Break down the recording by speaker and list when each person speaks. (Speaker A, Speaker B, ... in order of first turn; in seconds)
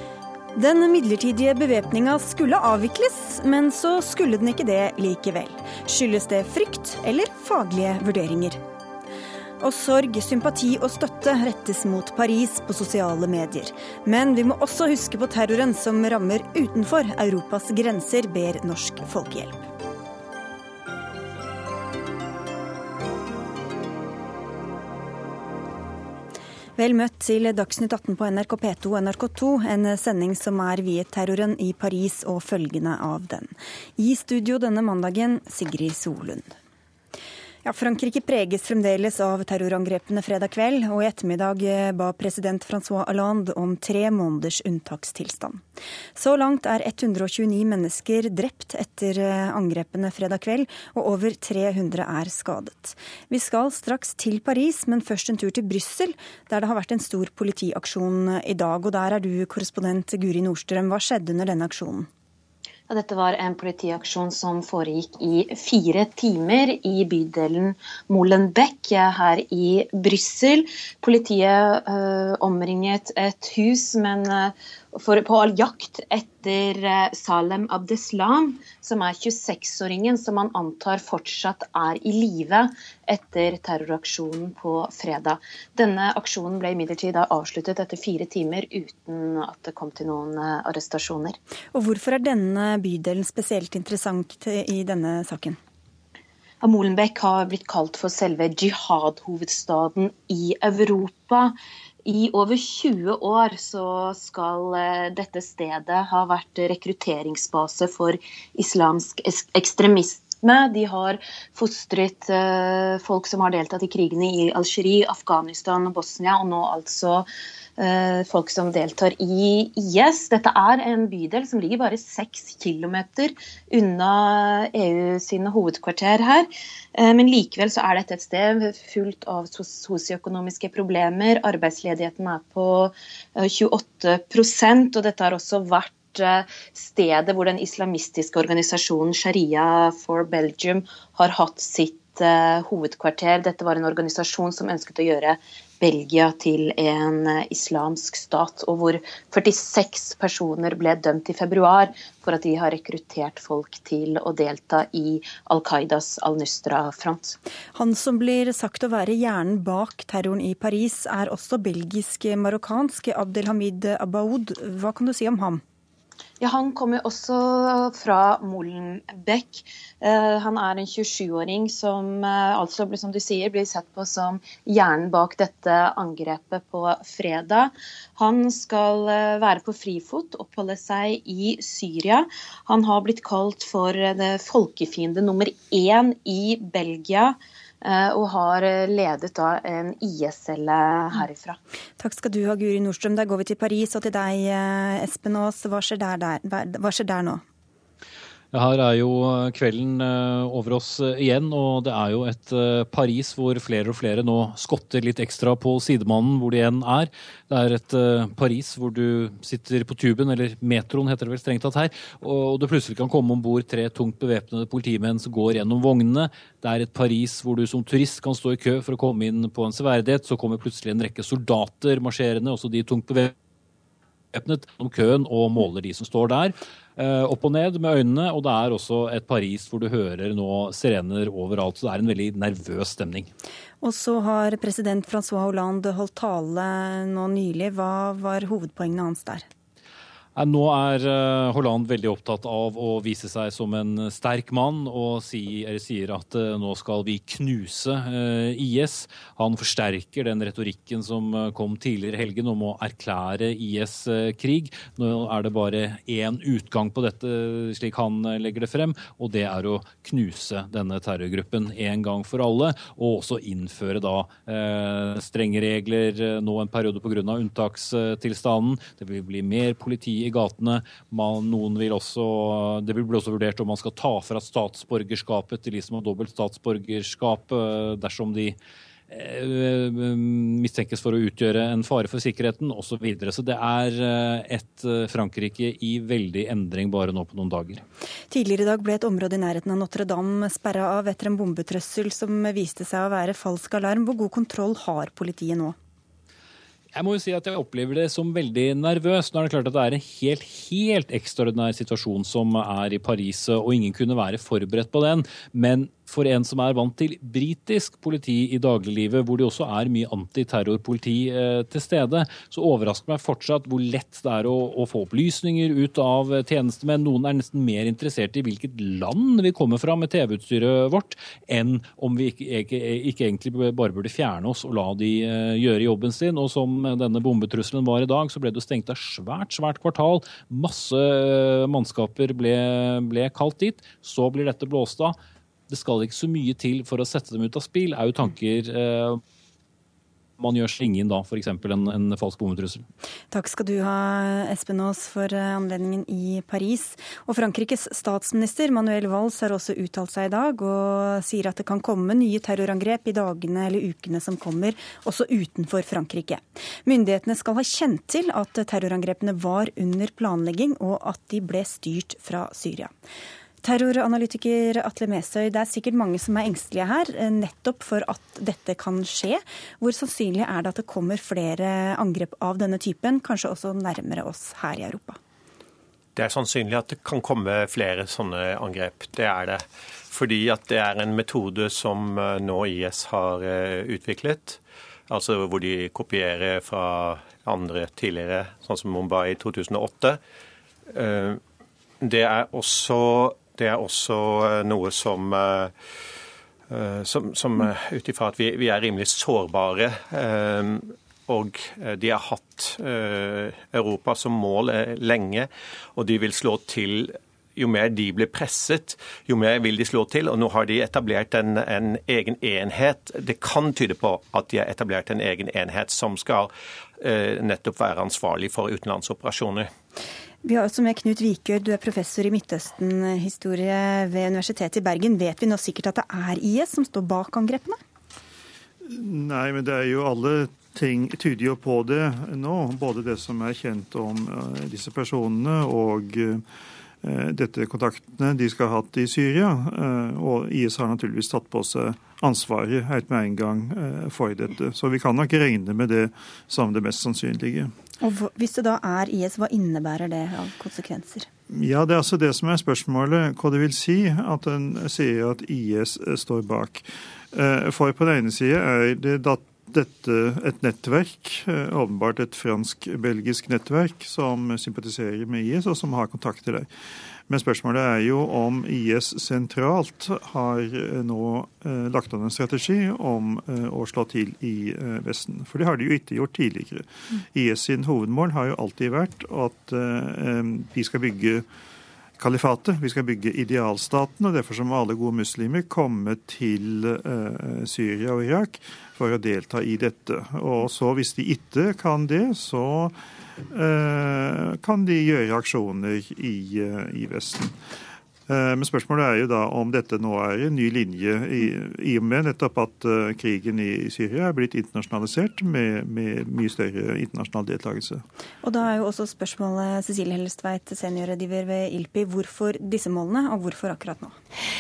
Speaker A: 0.6-8.6, 9.6-19.6, 26.8-36.5, 37.6-45.6, 46.1-62.1, 91.7-95.6, 157.7-165.6, 192.0-197.4, 233.8-239.5, 288.3-295.8, 343.3-362.9, 363.6-375.2, 420.4-427.8, 448.0-451.3, 508.4-514.1
Speaker B: 62.9-91.4, 96.6-157.4, 166.4-191.6
Speaker C: 198.5-223.3, 224.3-233.3, 240.4-278.6, 279.1-287.8, 296.9-335.2, 335.7-339.2, 340.4-342.9
Speaker D: 376.2-390.2, 390.9-391.4, 392.0-395.7, 396.7-419.7
Speaker E: 428.9-436.4, 437.0-447.7, 451.5-466.7, 467.3-481.5, 482.2-493.0, 493.5-497.6, 498.3-508.1